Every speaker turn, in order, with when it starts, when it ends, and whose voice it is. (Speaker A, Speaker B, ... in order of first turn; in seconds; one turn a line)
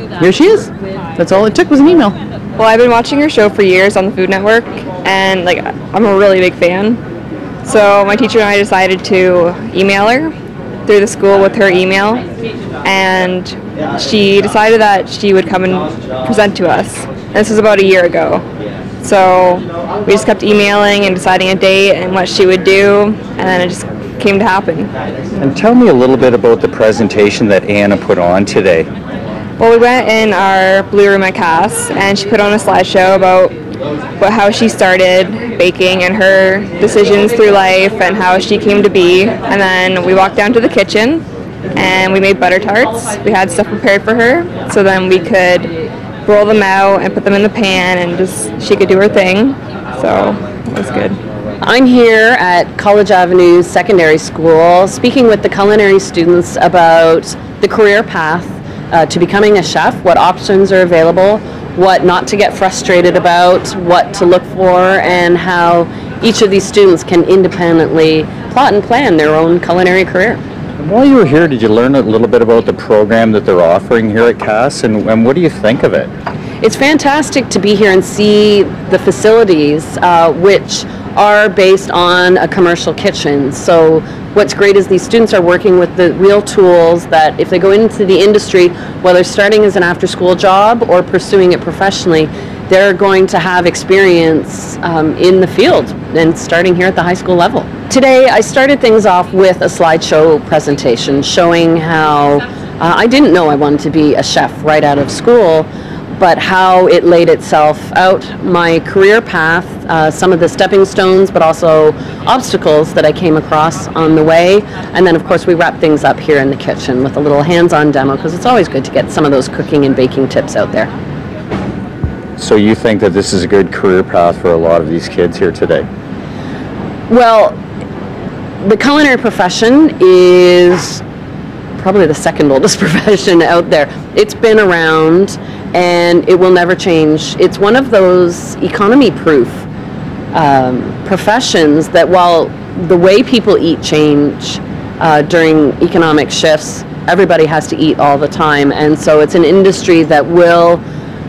Speaker A: 0.2-2.1
Speaker B: 2.6-7.0
Speaker B: 7.7-10.3
Speaker B: 10.9-12.2
Speaker B: 12.8-18.4
Speaker B: 19.0-24.9
Speaker C: 25.4-28.9
Speaker B: 29.6-33.5
Speaker B: 34.2-41.2
Speaker B: 41.8-45.7
Speaker B: 46.3-51.2
Speaker D: 51.6-70.4
Speaker C: 70.8-76.1
Speaker D: 76.6-120.9
Speaker C: 122.4-125.9
Speaker D: 127.1-127.6
Speaker D: 128.6-131.0
Speaker D: 131.8-139.7
Speaker D: 140.3-150.8